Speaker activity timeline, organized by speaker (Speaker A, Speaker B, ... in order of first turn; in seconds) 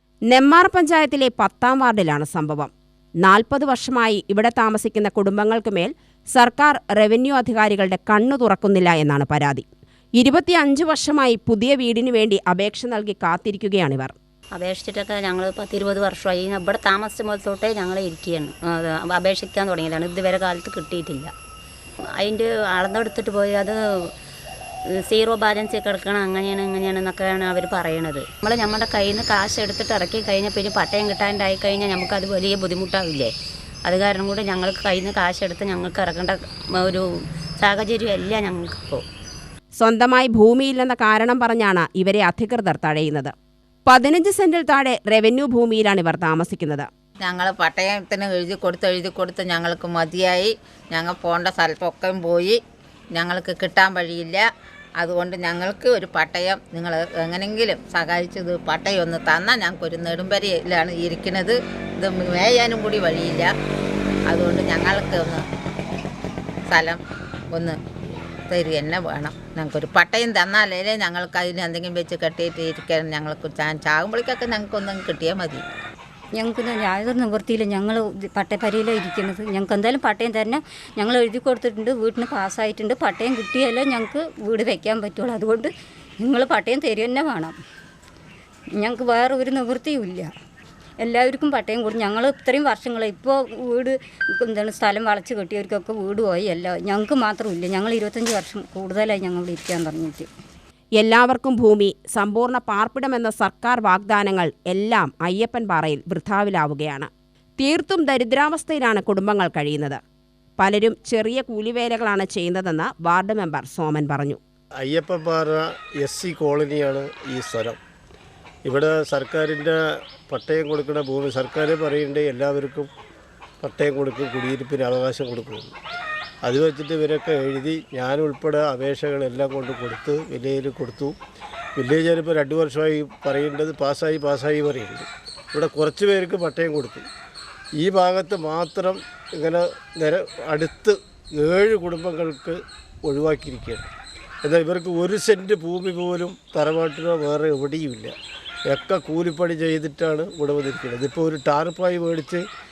Speaker A: 0.3-9.7, 10.2-14.2, 39.8-43.3, 43.9-46.9, 101.0-110.0, 110.6-114.4
Speaker B: 14.6-21.3, 22.2-23.8, 25.1-33.3, 33.9-37.0, 37.6-39.0
Speaker C: 47.2-52.6, 53.1-54.4, 55.0-63.5, 64.3-65.4, 66.7-67.0, 68.5-75.6
Speaker D: 76.3-87.6, 88.8-90.3, 91.0-100.3
Speaker E: 114.8-117.8, 118.7-119.8, 120.3-122.9, 123.6-125.8, 126.4-131.1, 131.8-137.0, 137.8-143.9, 144.4-148.1, 148.7-152.4